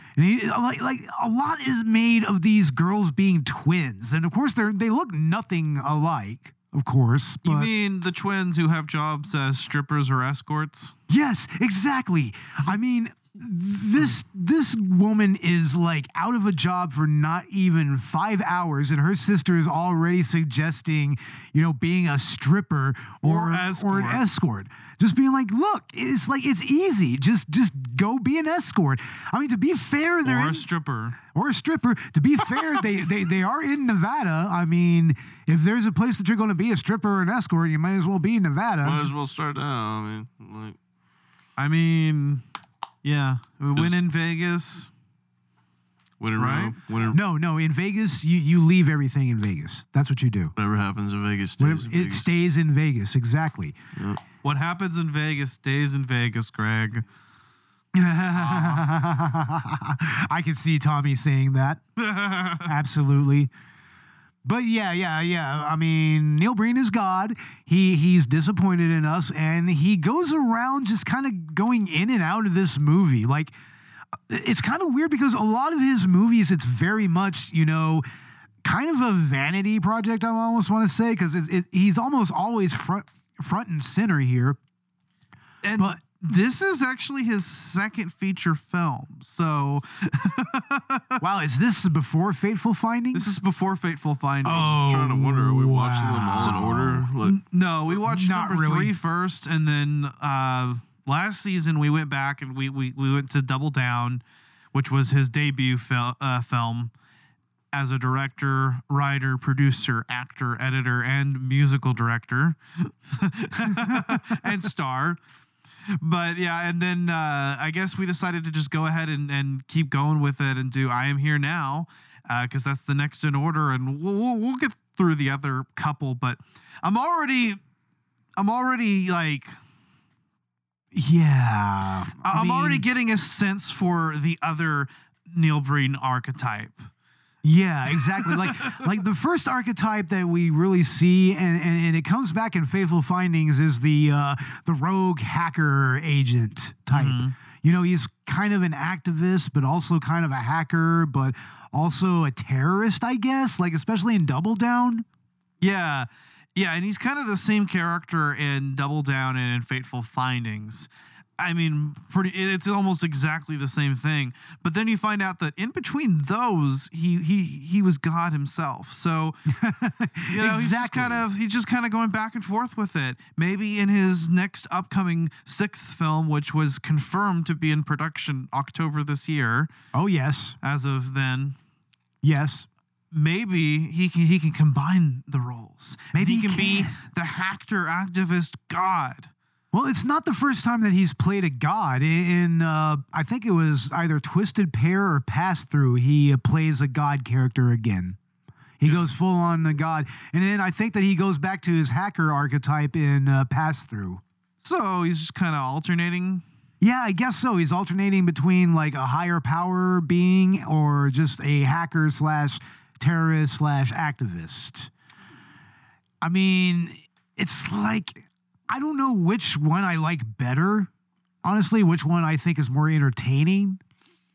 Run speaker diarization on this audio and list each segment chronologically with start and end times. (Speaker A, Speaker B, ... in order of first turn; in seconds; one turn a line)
Speaker A: 0.2-7.7
Speaker B: 7.4-10.9
Speaker A: 11.1-30.7
Speaker B: 23.2-24.2
Speaker B: 30.2-31.2
Speaker A: 31.3-39.1
Speaker C: 38.8-40.8
Speaker B: 41.6-42.4
Speaker B: 43.0-44.9
Speaker C: 46.2-47.2
Speaker B: 46.4-46.8
Speaker A: 47.1-50.5
Speaker C: 50.6-52.3
Speaker A: 51.6-53.8
Speaker C: 54.0-54.2
Speaker B: 54.4-57.0
Speaker A: 58.0-61.8
Speaker B: 58.3-58.9
Speaker B: 62.0-62.7
Speaker A: 62.5-63.5
Speaker A: 64.4-73.5
Speaker A: 74.3-78.0
Speaker A: 78.6-84.6
Speaker B: 85.6-91.2
Speaker A: 91.2-93.4
Speaker B: 93.1-94.9
Speaker A: 94.4-97.1
Speaker C: 94.5-97.4
Speaker B: 96.4-104.2
Speaker A: 98.0-99.0
Speaker B: 104.7-106.9
Speaker B: 107.7-115.2
Speaker A: 113.8-114.2
Speaker B: 116.0-127.6
Speaker B: 128.4-129.6
Speaker A: 130.9-132.8
Speaker B: 132.2-136.9
Speaker A: 137.4-155.1
Speaker B: 138.2-138.8
Speaker B: 146.9-147.3
Speaker B: 155.6-169.4
Speaker A: 169.5-171.3
Speaker B: 170.3-179.7
Speaker A: 179.9-180.6
Speaker B: 180.6-181.6
Speaker A: 182.2-182.7
Speaker B: 183.1-189.3
Speaker A: 186.1-186.9
Speaker A: 189.7-198.2
Speaker A: 198.8-204.2
Speaker B: 198.8-199.1
Speaker B: 204.6-206.4
Speaker A: 206.8-214.9
Speaker A: 216.2-220.9
Speaker A: 221.4-223.8